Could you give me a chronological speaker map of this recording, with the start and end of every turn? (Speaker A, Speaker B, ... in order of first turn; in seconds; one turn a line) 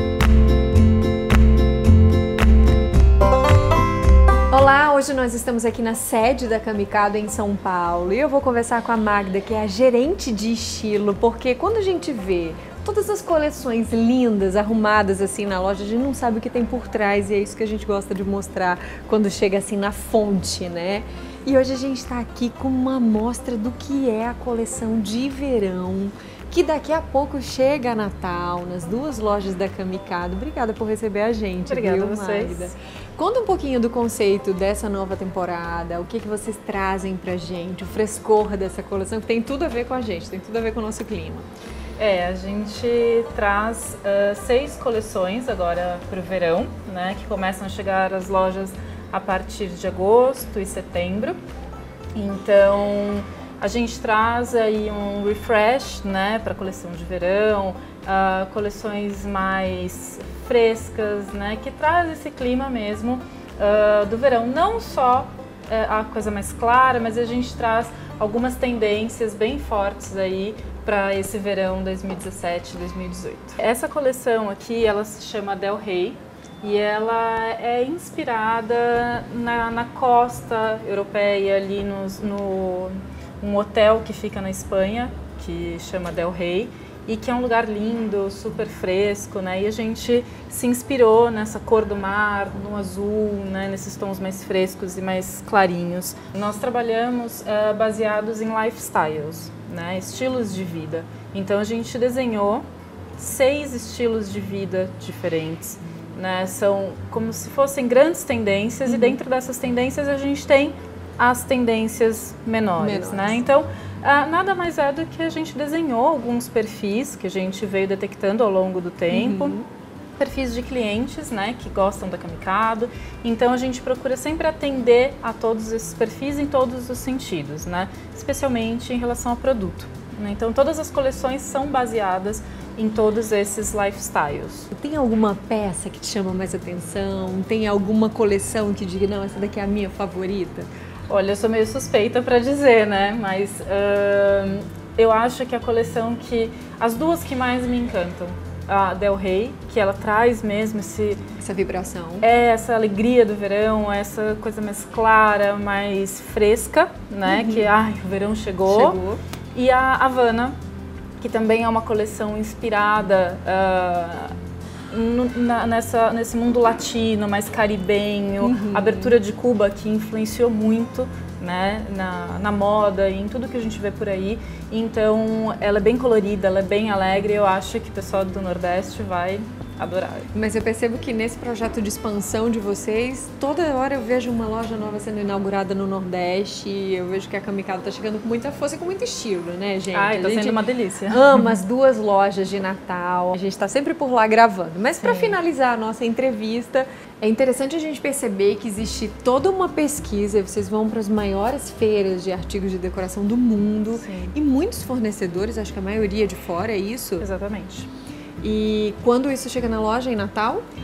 Speaker A: 4.5-41.5
Speaker B: 31.6-32.7
Speaker B: 42.0-51.4
Speaker B: 52.1-102.7
Speaker B: 103.2-119.6
Speaker A: 108.9-109.2
Speaker A: 112.8-113.4
Speaker A: 119.1-119.6
Speaker B: 120.2-134.7
Speaker A: 134.7-140.7
Speaker B: 141.1-151.2
Speaker A: 151.4-152.3
Speaker B: 152.2-159.0
Speaker A: 157.2-157.7
Speaker A: 158.7-159.2
Speaker B: 159.5-160.5
Speaker B: 161.2-164.3
Speaker B: 164.9-180.3
Speaker A: 168.4-169.2
Speaker A: 180.3-207.3
Speaker B: 189.9-191.5
Speaker B: 195.0-195.4
Speaker B: 203.9-204.3
Speaker B: 207.2-207.9
Speaker A: 208.4-210.6